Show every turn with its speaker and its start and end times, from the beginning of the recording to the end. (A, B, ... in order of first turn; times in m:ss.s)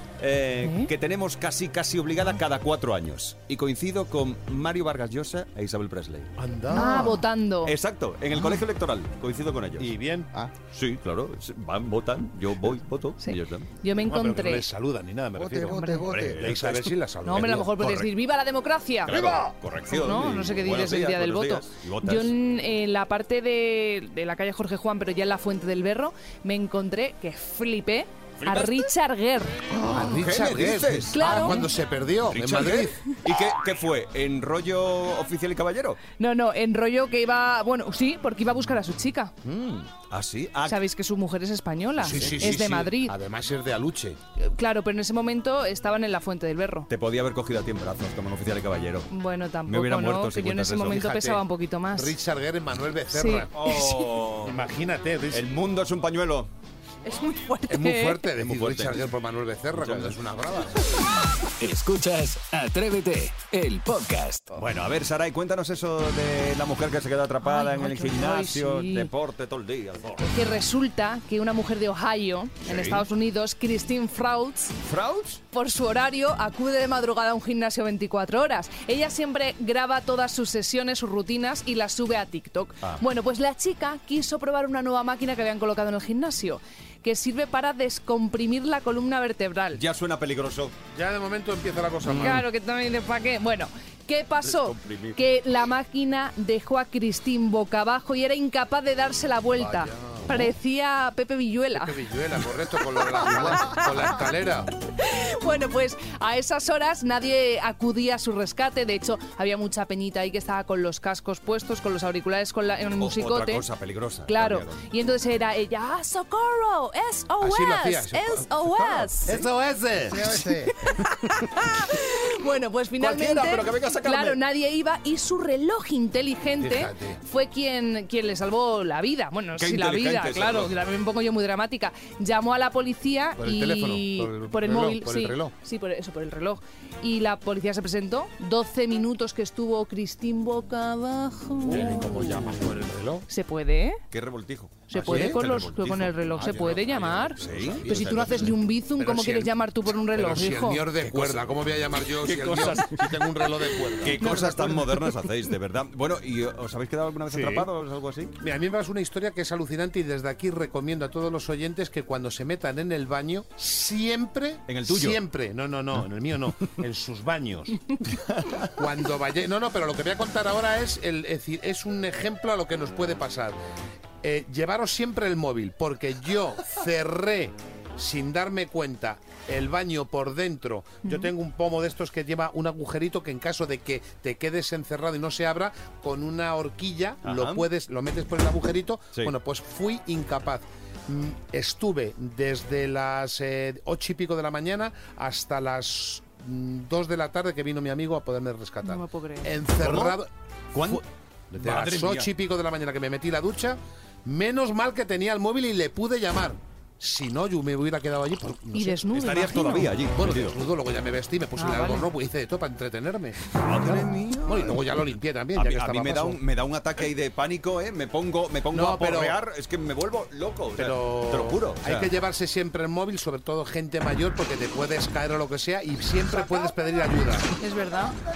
0:00.2-0:06.3 A
0:00.6-0:00.9 B
0:06.4-0:07.2 C
0:06.7-0:07.8 B
0:07.6-0:10.0 A
0:08.3-0:08.6 B
0:09.8-0:10.3 C
0:10.7-0:13.7 A
0:13.2-0:14.6 B
0:14.0-0:17.9 C
0:15.4-0:16.5 D
0:15.7-0:16.0 B
0:16.1-0:18.1 A
0:17.2-0:19.2 B
0:19.0-0:22.3 A
0:19.9-0:29.6 B
0:28.4-0:28.9 A
0:29.7-0:31.6 A
0:29.9-0:33.1 C
0:31.1-0:31.7 B
0:32.3-0:36.0 A
0:36.2-0:39.3 B
0:39.4-0:40.8 A
0:40.7-0:43.2 B
0:42.0-0:44.2 C
0:42.0-0:42.4 A
0:44.4-0:46.9 B
0:46.9-0:49.1 A
0:49.1-0:52.2 B
0:49.6-0:51.1 A
0:50.9-0:51.4 C
0:51.9-0:53.8 C
0:53.1-0:53.8 B
0:53.5-0:54.6 A
0:54.4-0:55.4 C
0:55.3-0:56.5 A
0:57.0-0:58.2 B
0:57.7-1:00.9 C
0:58.4-0:59.1 A
0:59.7-1:00.2 A
1:01.6-1:04.5 E
1:04.5-1:10.3 A
1:07.4-1:09.1 B
1:10.2-1:14.8 B
1:12.6-1:13.0 A
1:14.8-1:15.4 A
1:15.5-1:29.8 B
1:29.8-1:30.8 A
1:30.9-1:32.4 C
1:32.1-1:32.3 A
1:32.1-1:42.0 B
1:34.4-1:35.2 A
1:39.5-1:40.5 C
1:41.7-1:44.7 C
1:43.0-1:43.9 B
1:45.0-1:53.6 B
1:53.0-1:54.8 A
1:54.3-1:59.4 B
1:57.4-2:00.4 C
2:00.0-2:00.8 D
2:00.8-2:22.2 B
2:03.0-2:04.4 A
2:06.6-2:07.2 C
2:09.6-2:10.7 A
2:13.4-2:15.5 C
2:21.6-2:23.2 C
2:21.8-2:22.7 A
2:23.3-2:24.0 B
2:24.1-2:26.8 A
2:24.9-2:30.9 B
2:24.9-2:25.4 C
2:26.3-2:29.5 C
2:27.4-2:28.6 A
2:30.1-2:34.8 C
2:31.0-2:38.3 A
2:34.2-2:34.7 B
2:37.3-2:37.7 C
2:38.4-2:48.0 C
2:44.7-2:45.2 A
2:48.3-2:48.7 A
2:48.8-2:53.6 C
2:54.2-3:29.0 C
3:01.0-3:01.3 B
3:07.2-3:07.7 A
3:18.8-3:19.5 B
3:19.8-3:20.2 A
3:20.7-3:21.0 A
3:21.6-3:22.3 A
3:28.7-3:29.9 B
3:29.1-3:30.6 A
3:30.2-3:36.4 C
3:31.6-3:32.1 B
3:33.6-3:42.1 A
3:38.7-3:39.4 C
3:40.8-3:47.5 C
3:47.6-3:48.2 B